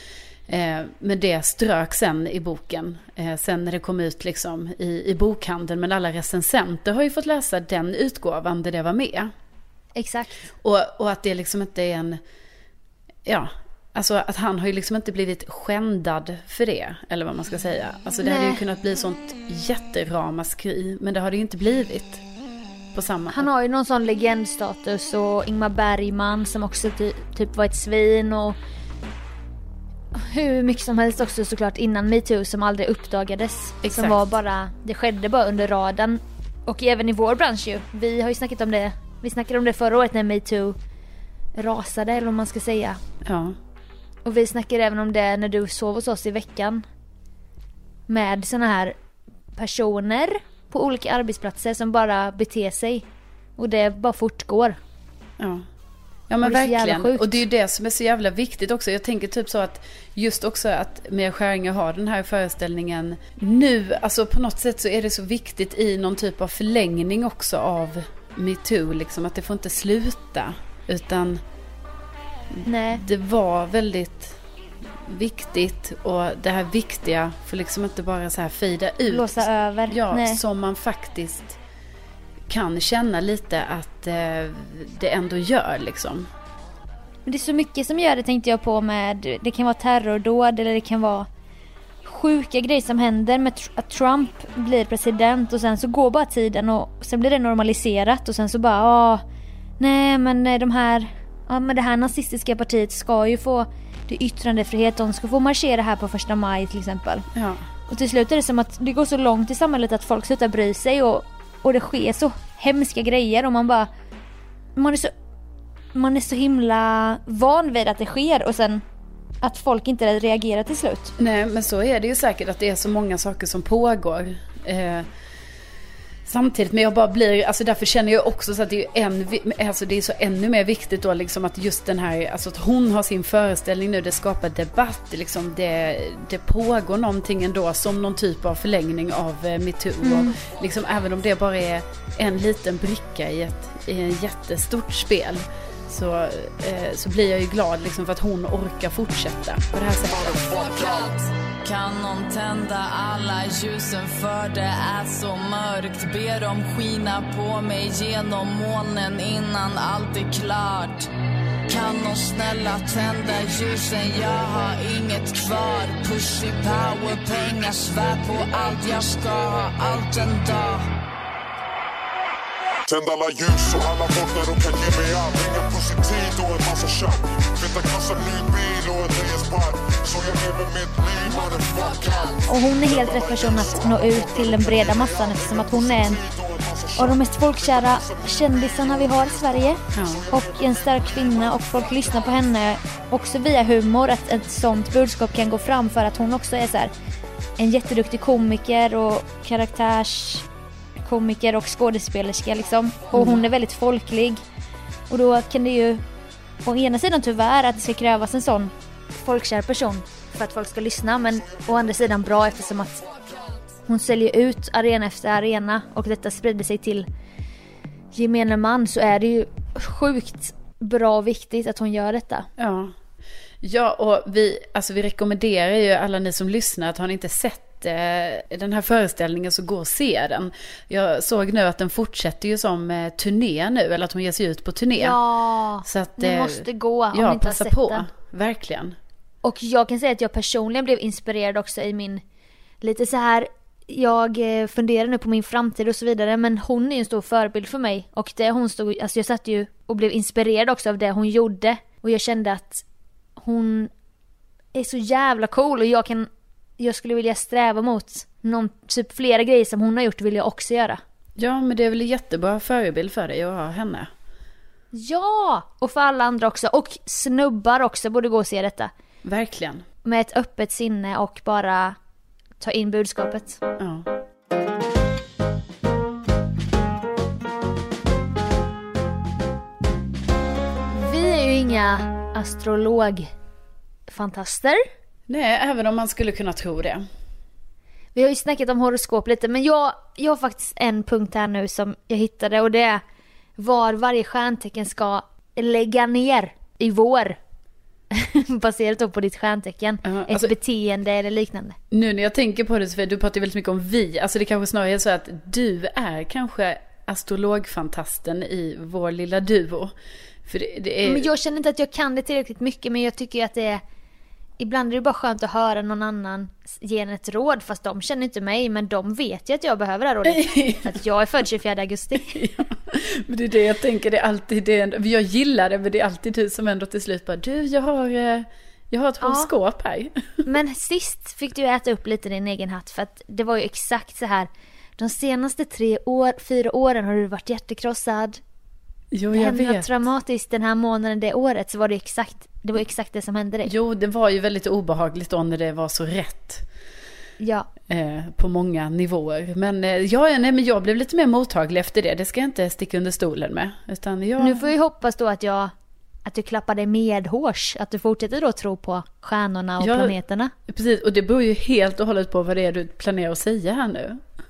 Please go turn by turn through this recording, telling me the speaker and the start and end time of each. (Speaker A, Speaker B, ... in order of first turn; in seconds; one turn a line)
Speaker A: 0.5-9.3
Speaker B: 10.0-10.5
Speaker A: 10.6-12.2
Speaker A: 13.3-22.2
Speaker B: 18.2-18.6
Speaker A: 22.9-23.5
Speaker B: 23.3-28.6
Speaker B: 30.1-40.8
Speaker A: 33.8-34.4
Speaker B: 41.6-43.0
Speaker A: 43.2-43.6
Speaker B: 44.2-46.8
Speaker B: 48.1-49.0
Speaker B: 49.6-53.1
Speaker B: 53.6-54.8
Speaker A: 55.4-55.6
Speaker A: 56.3-71.4
Speaker B: 56.4-57.4
Speaker A: 72.6-74.4
Speaker B: 72.7-73.0
Speaker A: 75.0-81.6
Speaker B: 79.1-80.4
Speaker A: 82.5-86.3
Speaker B: 87.3-91.3
Speaker B: 92.0-99.2
Speaker B: 99.8-107.3
Speaker A: 107.3-107.6
Speaker B: 107.9-113.9
Speaker B: 114.8-115.1
Speaker B: 115.9-118.8
Speaker B: 119.4-121.1
Speaker A: 121.2-125.1
Speaker A: 126.3-150.4
Speaker B: 140.0-140.4
Speaker C: 150.0-151.1
Speaker D: 150.6-161.1
Speaker D: 161.7-170.9
Speaker C: 172.9-191.6
Speaker B: 182.5-186.2
Speaker B: 187.0-196.9
Speaker A: 189.9-190.2
Speaker B: 197.6-200.5
Speaker B: 201.0-204.4
Speaker A: 203.1-203.4
Speaker B: 205.1-206.0
Speaker B: 206.6-213.1
Speaker B: 213.9-217.1
Speaker B: 218.1-222.5
Speaker A: 222.6-222.9
Speaker A: 223.6-235.2
Speaker B: 235.0-238.1
Speaker A: 235.8-239.0
Speaker B: 239.4-242.2
Speaker B: 242.8-252.8
Speaker B: 253.4-253.9
Speaker B: 254.8-261.0
Speaker A: 261.4-264.1
Speaker B: 264.9-268.9
Speaker A: 269.2-269.9
Speaker B: 270.0-272.0
Speaker B: 272.6-273.6
Speaker A: 273.8-274.1
Speaker B: 280.9-283.3
Speaker B: 284.1-284.9
Speaker A: 285.3-287.1
Speaker B: 288.1-293.0
Speaker B: 293.6-297.4
Speaker B: 298.1-301.8
Speaker A: 300.0-300.5
Speaker A: 301.9-309.9
Speaker A: 310.5-311.3
Speaker B: 311.0-313.8
Speaker B: 314.6-322.4
Speaker A: 320.2-321.0
Speaker A: 322.2-330.4
Speaker B: 329.2-329.5
Speaker B: 330.5-338.4
Speaker A: 339.1-340.0
Speaker B: 339.3-343.7
Speaker A: 343.6-346.6
Speaker B: 347.4-347.7
Speaker A: 347.9-354.7
Speaker B: 354.4-355.7
Speaker B: 356.2-360.5
Speaker A: 359.8-360.2
Speaker A: 360.7-364.2